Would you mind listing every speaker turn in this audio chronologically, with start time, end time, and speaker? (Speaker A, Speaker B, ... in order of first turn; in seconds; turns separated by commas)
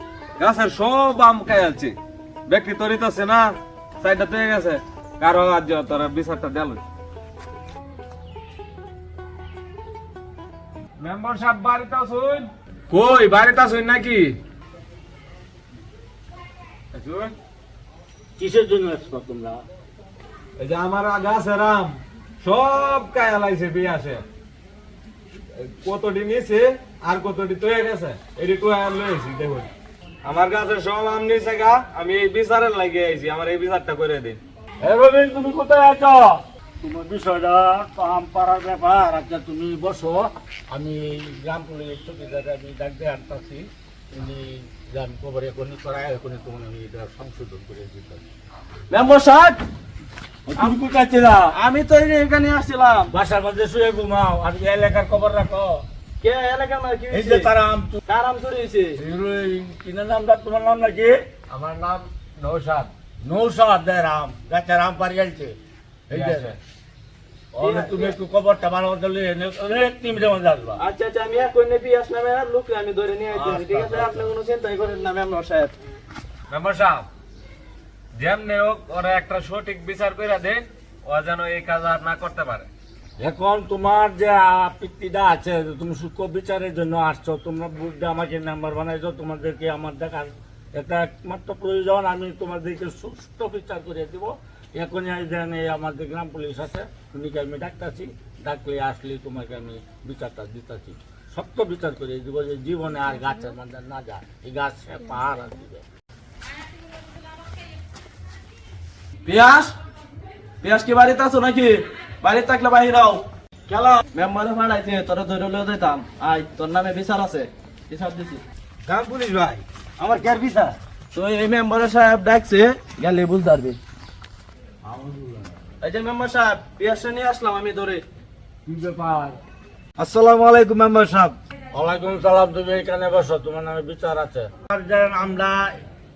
Speaker A: 0.4-1.9, Speaker A: 2.5-6.8, Speaker A: 11.0-14.4, Speaker A: 16.9-17.3, Speaker B: 18.4-19.6, Speaker A: 20.6-24.2, Speaker A: 25.6-29.7, Speaker A: 30.2-34.4, Speaker B: 34.8-48.2, Speaker C: 48.9-49.6, Speaker B: 50.5-51.5, Speaker C: 51.5-53.1, Speaker B: 53.1-55.8, Speaker C: 56.2-57.5, Speaker B: 57.1-58.0, Speaker C: 58.1-59.0, Speaker B: 59.0-61.2, Speaker A: 61.5-62.9, Speaker B: 63.2-65.6, Speaker B: 66.1-66.5, Speaker A: 66.1-66.6, Speaker B: 67.5-70.8, Speaker C: 67.6-68.2, Speaker C: 70.8-75.7, Speaker B: 73.3-74.3, Speaker A: 76.5-77.1, Speaker A: 78.2-82.7, Speaker B: 83.2-105.8, Speaker C: 109.2-109.8, Speaker C: 110.6-118.4, Speaker A: 118.9-119.6, Speaker B: 120.0-120.7, Speaker C: 121.1-123.8, Speaker B: 124.9-125.4, Speaker C: 125.8-128.0, Speaker B: 128.7-129.4, Speaker A: 130.0-131.2, Speaker B: 131.7-135.7